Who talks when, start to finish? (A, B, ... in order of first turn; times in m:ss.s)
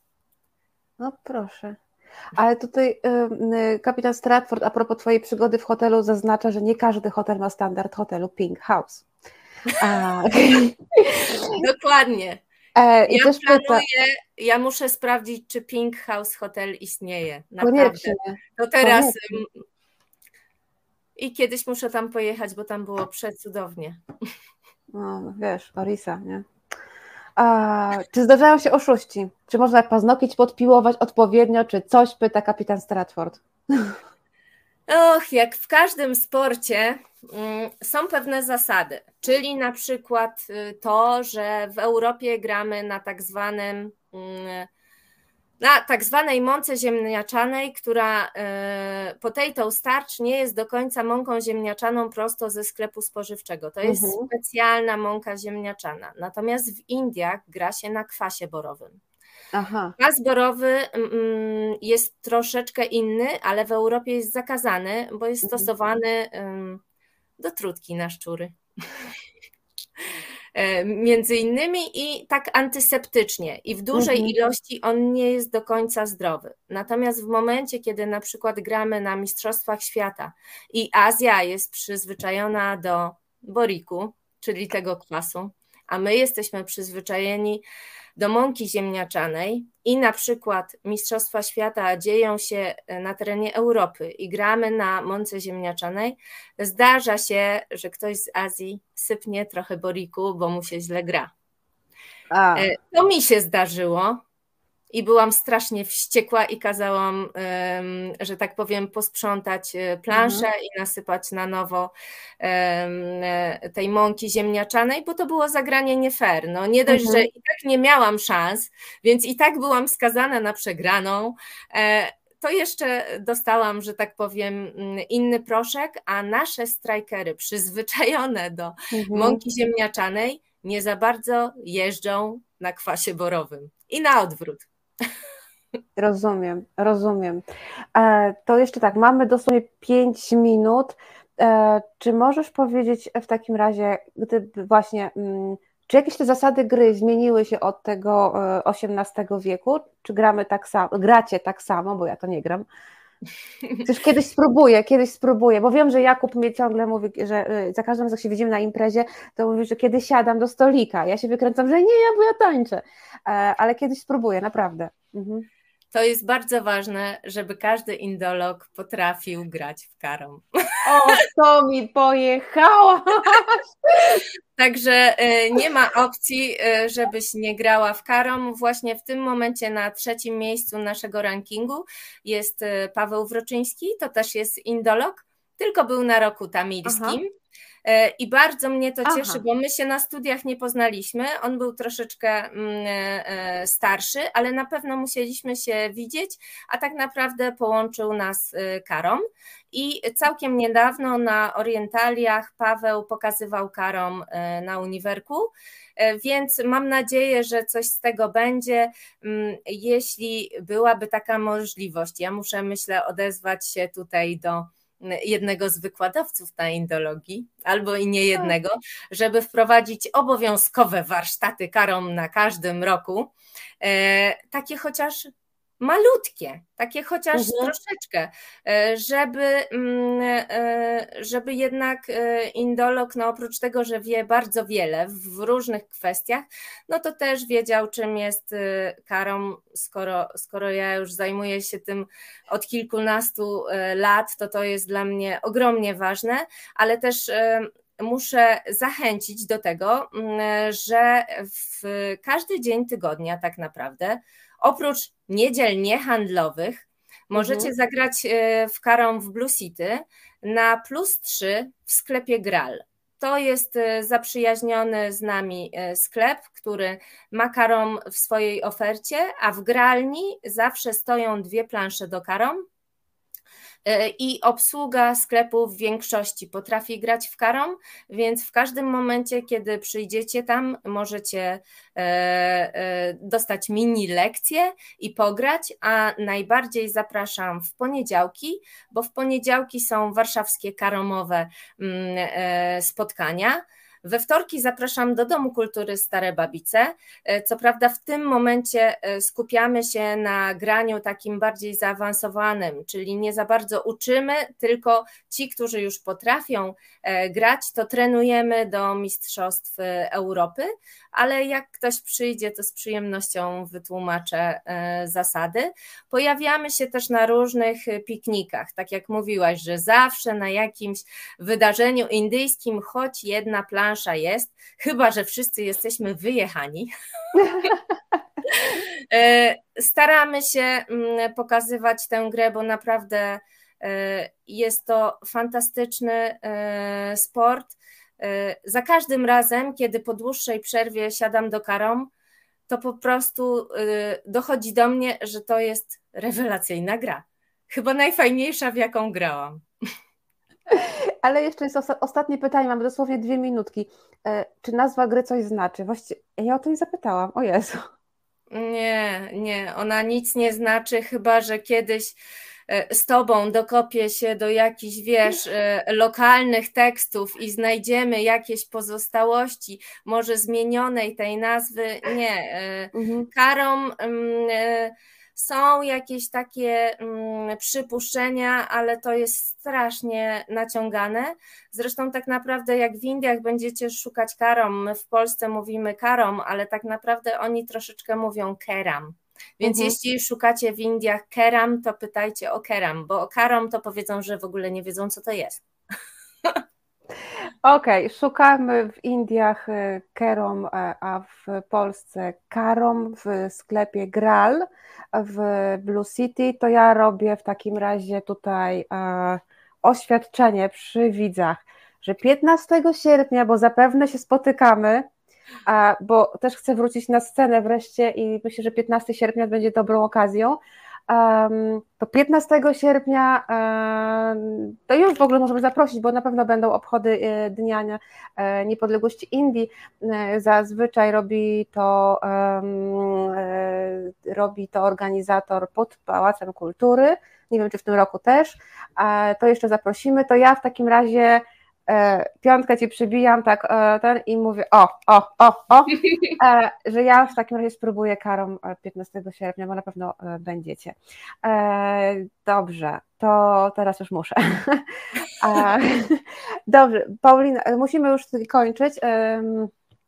0:01.0-0:01.8 A
0:02.4-0:09.1 A
0:09.8-0:11.5 A
0:11.4-0:12.4 B
0:12.8-0:13.8 A
0:13.1-0:19.6 B
0:17.6-0:19.4 A
0:21.2-0:24.0 B
0:24.9-0:26.4 A
0:27.4-0:34.0 A
0:34.9-0:44.7 B
0:45.6-0:59.0 B
0:53.8-0:54.3 A
0:59.5-0:59.9 A
1:00.0-1:06.8 B
1:05.4-1:05.7 A
1:07.4-1:09.0 B
1:10.5-1:27.6 B
1:13.9-1:14.3 A
1:28.2-1:41.3 B
1:42.3-1:42.7 A
1:42.6-1:44.2 B
1:44.9-2:14.7 B
1:50.1-1:50.4 A
1:56.9-1:57.3 A
2:08.9-2:09.4 A
2:16.0-2:17.4 A
2:17.9-2:32.6 A
2:33.8-2:45.4 A
2:45.9-2:50.4 B
2:50.8-2:54.2 A
2:54.0-3:07.3 B
3:06.8-3:07.2 A
3:07.8-3:43.3 B
3:09.0-3:09.4 A
3:43.8-4:32.6 B
3:47.3-3:47.7 A
4:17.3-4:17.7 A
4:33.8-5:27.7 B
5:27.4-5:27.8 A
5:28.5-5:42.1 B
5:42.7-5:49.6 B
5:50.7-5:57.8 A
5:58.5-6:02.2 B
6:02.7-6:35.6 B
6:12.9-6:13.3 A
6:29.6-6:29.9 A
6:37.6-6:55.1 A
6:55.7-7:39.7 A